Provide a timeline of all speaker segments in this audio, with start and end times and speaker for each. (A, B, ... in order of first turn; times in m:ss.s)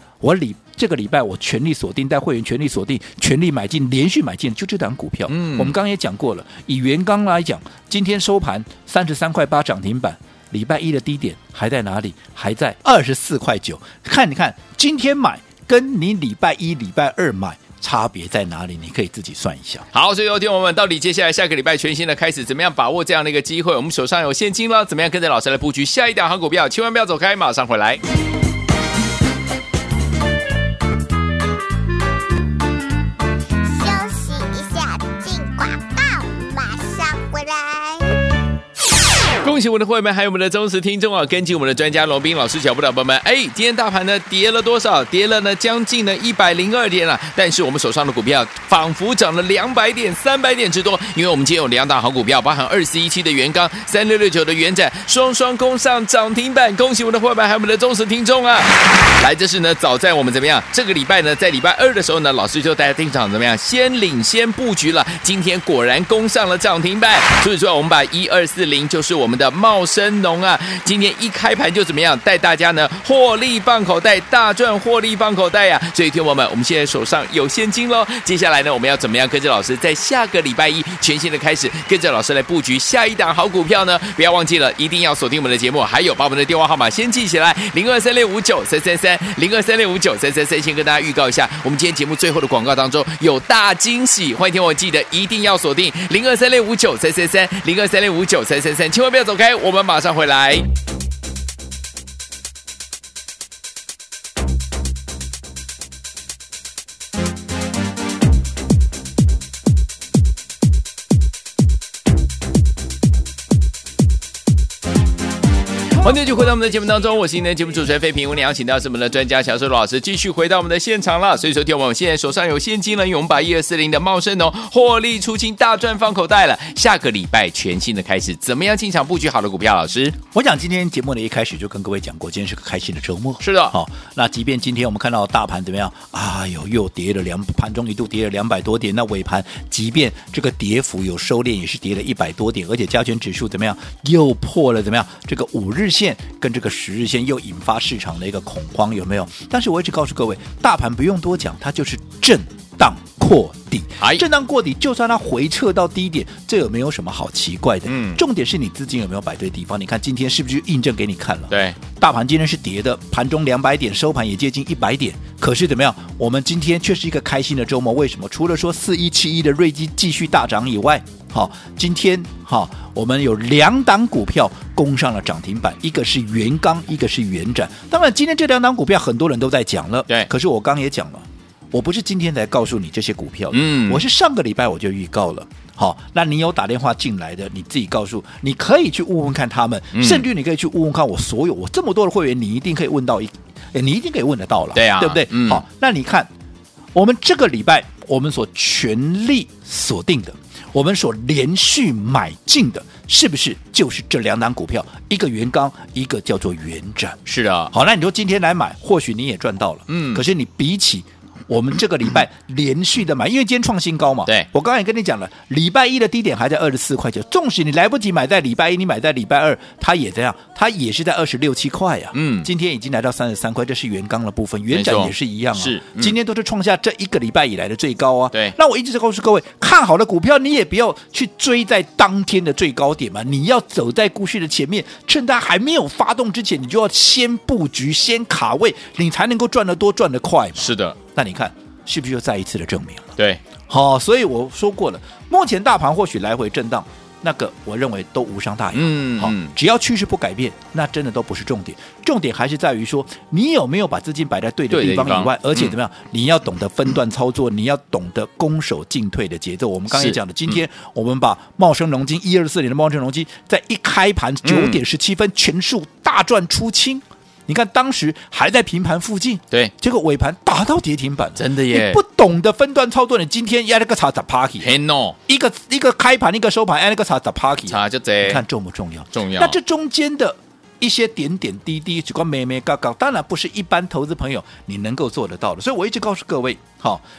0:00.2-0:19.9 A
0:05.3-0:05.8 B
0:19.9-0:28.0 B
0:33.6-0:38.2 C
0:39.4-1:40.7 B
1:56.0-2:10.2 B
2:10.3-3:16.3 A
2:13.4-2:13.8 B
2:37.9-2:38.2 B
2:41.5-2:41.8 B
3:03.5-3:04.1 B
3:10.0-3:10.3 B
3:14.8-3:15.6 B
3:16.9-4:03.2 A
3:27.3-3:27.7 B
3:29.9-3:30.2 B
3:42.1-3:42.5 B
3:44.7-3:46.2 B
4:00.6-4:01.0 B
4:03.2-4:03.4 B
4:03.7-4:34.8 A
4:08.7-4:09.6 B
4:14.7-4:15.7 B
4:19.9-4:20.6 B
4:24.4-4:24.8 B
4:31.4-4:32.0 B
4:34.6-4:35.2 B
4:35.3-4:47.0 A
4:37.7-4:38.4 B
4:39.1-4:39.6 B